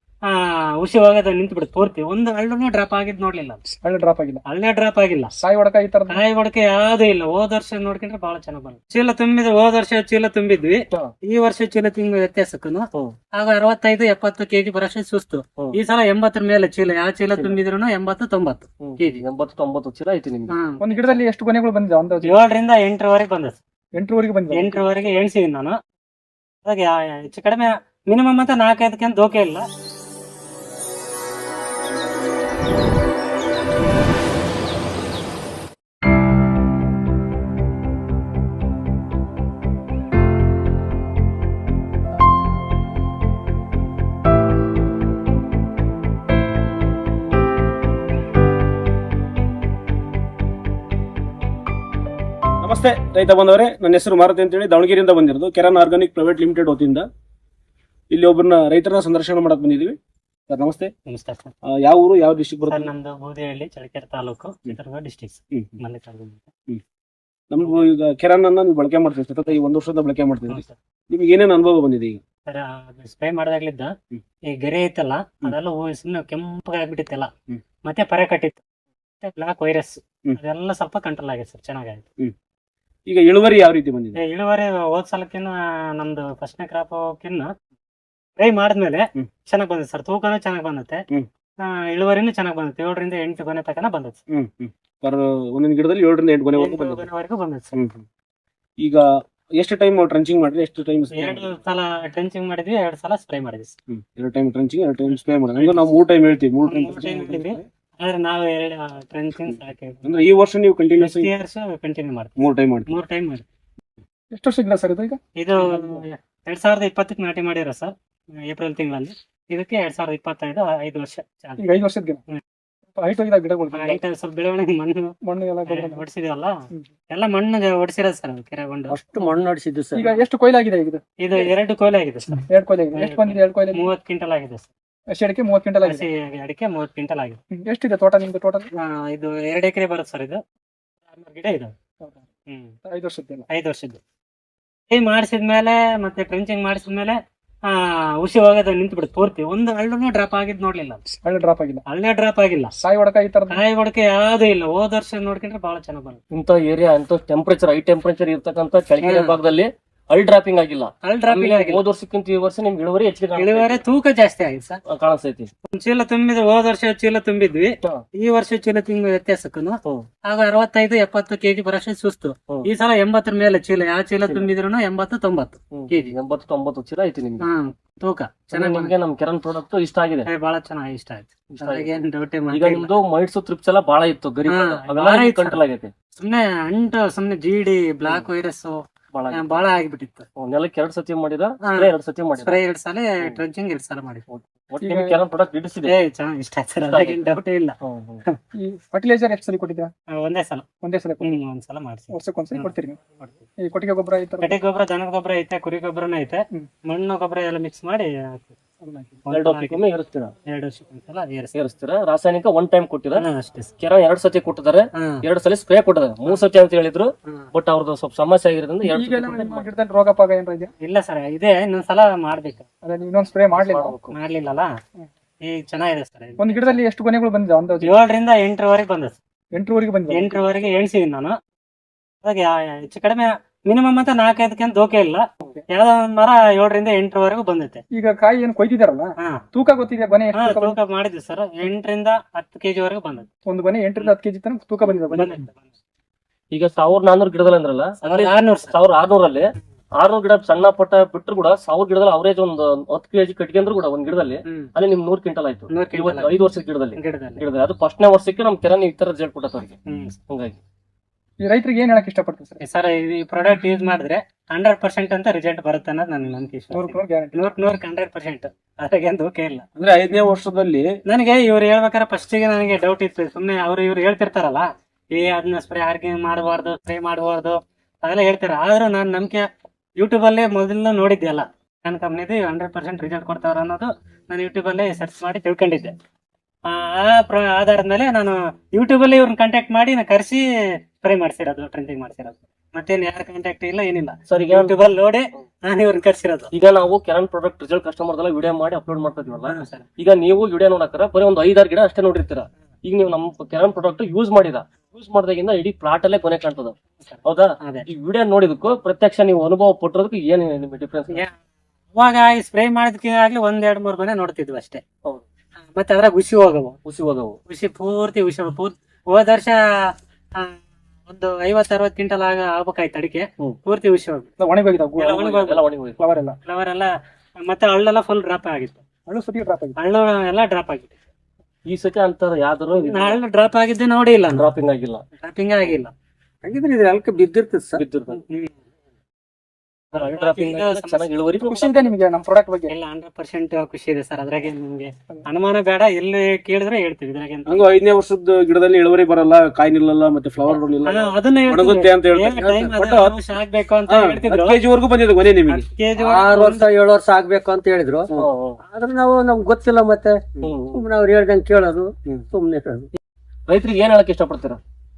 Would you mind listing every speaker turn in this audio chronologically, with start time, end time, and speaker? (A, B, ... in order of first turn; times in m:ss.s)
0:00.3-0:03.6 A
0:03.8-0:04.4 B
0:04.4-0:05.3 A
0:05.4-0:06.2 B
0:06.1-0:19.2 A
0:17.3-0:17.6 C
0:18.8-0:20.5 C
0:20.5-0:21.2 A
0:20.8-0:22.3 B
0:22.2-0:23.6 A
0:23.9-0:24.8 B
0:24.5-0:25.8 A
0:26.6-0:29.6 A
0:52.6-0:57.1 D
0:58.1-1:00.0 D
1:00.5-1:00.9 D
1:01.1-1:01.5 A
1:01.6-1:02.9 D
1:02.7-1:06.5 A
1:07.5-1:12.2 D
1:10.5-1:10.7 A
1:12.4-1:13.9 A
1:14.5-1:17.3 A
1:17.8-1:18.6 A
1:19.2-1:22.0 A
1:23.1-1:24.2 D
1:24.2-1:27.5 A
1:28.4-1:31.0 A
1:31.6-1:34.2 A
1:34.3-1:37.1 D
1:36.6-1:37.8 A
1:37.7-1:38.0 D
1:39.6-1:41.5 D
1:41.2-1:43.7 A
1:43.9-1:47.6 D
1:45.6-1:45.9 A
1:46.7-1:50.2 A
1:49.5-1:51.3 D
1:51.0-1:52.4 A
1:52.4-1:52.9 D
1:52.9-1:53.4 A
1:54.3-1:55.2 B
1:55.4-1:57.9 A
1:58.5-2:01.6 A
2:01.6-2:02.2 B
2:02.9-2:04.0 B
2:03.7-2:05.1 A
2:05.2-2:06.0 B
2:05.7-2:06.6 A
2:07.1-2:09.0 A
2:08.9-2:10.0 E
2:09.9-2:11.0 B
2:11.2-2:14.7 A
2:12.5-2:13.9 B
2:15.1-2:16.1 B
2:15.8-2:17.4 A
2:17.5-2:18.7 B
2:18.7-2:20.4 A
2:21.1-2:21.7 A
2:22.5-2:22.7 A
2:22.8-2:23.5 B
2:23.5-2:24.0 A
2:24.9-2:31.0 A
2:31.2-2:31.8 B
2:31.9-2:32.7 A
2:32.8-2:33.6 B
2:33.5-2:36.2 A
2:36.3-2:43.8 C
2:39.0-2:39.4 A
2:41.0-2:41.8 A
2:43.4-2:44.8 A
2:44.8-2:45.5 C
2:45.7-2:56.1 A
2:54.2-2:54.5 C
2:55.7-2:57.5 C
2:57.4-2:58.9 A
2:58.5-3:00.3 C
3:00.2-3:02.9 A
3:01.5-3:01.9 C
3:02.5-3:05.9 C
3:04.5-3:05.6 A
3:06.2-3:10.2 A
3:09.1-3:09.6 C
3:10.4-3:12.6 C
3:11.6-3:14.2 A
3:14.3-3:15.9 C
3:14.8-3:15.2 B
3:15.8-3:17.8 A
3:16.9-3:17.2 C
3:17.8-3:18.2 C
3:18.5-3:19.9 B
3:20.1-3:20.6 A
3:20.8-3:21.3 B
3:21.2-3:23.4 A
3:22.1-3:23.0 B
3:23.6-3:24.5 B
3:24.4-3:28.6 A
3:28.8-3:29.2 B
3:29.3-3:29.8 A
3:29.3-3:30.3 C
3:30.4-3:31.5 A
3:31.5-3:33.3 C
3:33.2-3:33.7 A
3:33.8-3:39.6 C
3:34.9-3:35.2 A
3:38.8-3:40.7 B
3:40.8-3:42.6 A
3:42.8-3:43.9 B
3:43.5-3:44.1 C
3:44.1-3:44.7 A
3:45.4-3:46.8 A
3:46.4-3:48.0 B
3:47.8-3:49.2 A
3:49.5-3:50.4 B
3:50.1-3:51.4 A
3:52.2-3:57.8 A
3:57.9-4:00.8 B
4:00.4-4:03.3 A
4:03.4-4:05.4 B
4:05.1-4:05.6 A
4:06.5-4:19.8 C
4:08.0-4:08.7 A
4:14.4-4:14.7 A
4:15.7-4:16.3 A
4:17.0-4:17.4 A
4:19.9-4:20.2 A
4:20.3-4:20.6 C
4:21.4-4:22.6 B
4:22.6-4:29.6 A
4:26.7-4:27.4 B
4:29.8-4:30.9 D
4:31.1-4:45.9 A
4:46.7-4:50.4 A
4:51.0-4:56.5 A
4:54.3-4:54.8 C
4:56.5-5:11.2 C
4:59.5-4:59.8 A
5:07.0-5:07.8 A
5:11.9-5:14.8 A
5:15.6-5:16.8 A
5:16.8-5:17.4 C
5:17.5-5:24.3 A
5:24.4-5:25.2 B
5:25.0-5:25.6 A
5:25.1-5:26.0 C
5:26.0-5:26.4 B
5:26.4-5:28.8 A
5:29.1-5:29.8 B
5:29.8-5:31.0 A
5:31.6-5:33.2 C
5:32.8-5:34.5 A
5:34.3-5:35.0 C
5:35.2-5:35.9 A
5:36.4-5:37.8 E
5:37.7-5:38.2 C
5:39.9-5:41.1 A
5:39.9-5:41.9 C
5:41.4-5:42.7 B
5:42.7-5:47.6 A
5:47.5-5:53.2 D
5:50.8-5:54.6 A
5:53.9-5:55.7 D
5:55.5-5:56.7 A
5:55.9-5:58.1 E
5:58.1-5:58.6 C
5:58.6-6:02.9 E
6:00.4-6:00.8 C
6:03.5-6:04.6 C